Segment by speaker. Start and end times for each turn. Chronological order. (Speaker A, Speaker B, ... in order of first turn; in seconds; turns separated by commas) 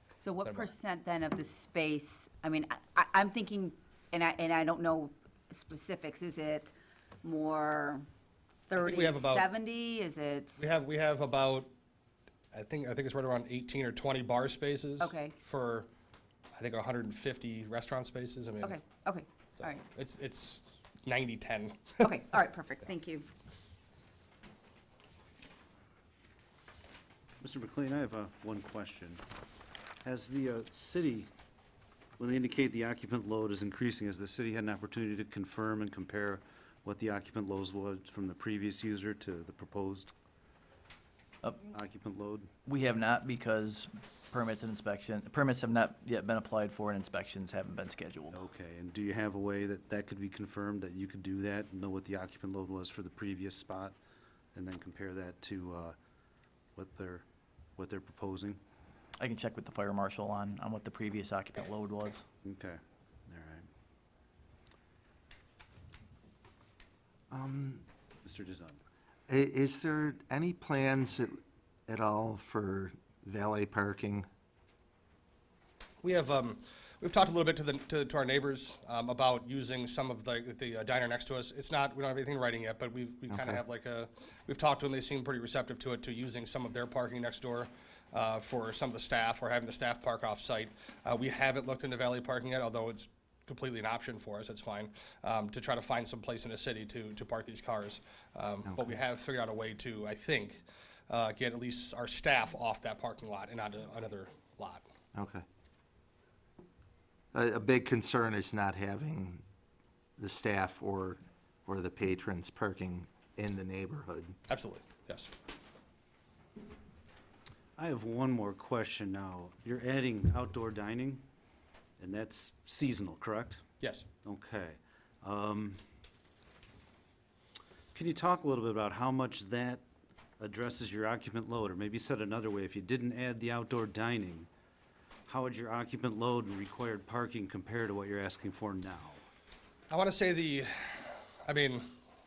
Speaker A: 0.2-8.1, Speaker B: 0.4-0.7, Speaker A: 8.7-10.7, Speaker B: 8.8-9.5, Speaker B: 10.6-11.7, Speaker B: 12.5-15.9, Speaker A: 15.0-15.3, Speaker B: 16.6-18.8, Speaker A: 18.6-19.8, Speaker B: 19.6-22.2, Speaker A: 22.0-23.3, Speaker C: 27.4-29.2, Speaker C: 30.0-31.3, Speaker C: 32.2-40.1, Speaker D: 41.4-41.7, Speaker C: 41.7-42.5, Speaker D: 42.7-48.5, Speaker C: 48.3-54.0, Speaker C: 54.5-56.0, Speaker C: 56.8-57.2, Speaker C: 57.8-58.6, Speaker D: 59.2-62.2, Speaker C: 62.4-63.7, Speaker E: 67.3-67.9, Speaker C: 68.2-68.8, Speaker E: 69.3-74.3, Speaker B: 76.0-104.9, Speaker E: 83.3-83.6, Speaker E: 105.2-105.4, Speaker E: 107.3-109.4, Speaker E: 110.2-114.4, Speaker B: 114.5-115.3, Speaker C: 117.8-121.2, Speaker C: 122.0-123.6, Speaker B: 123.8-124.1, Speaker C: 124.2-125.8, Speaker C: 127.9-129.8, Speaker C: 130.4-134.5, Speaker C: 135.3-139.2, Speaker B: 139.9-141.9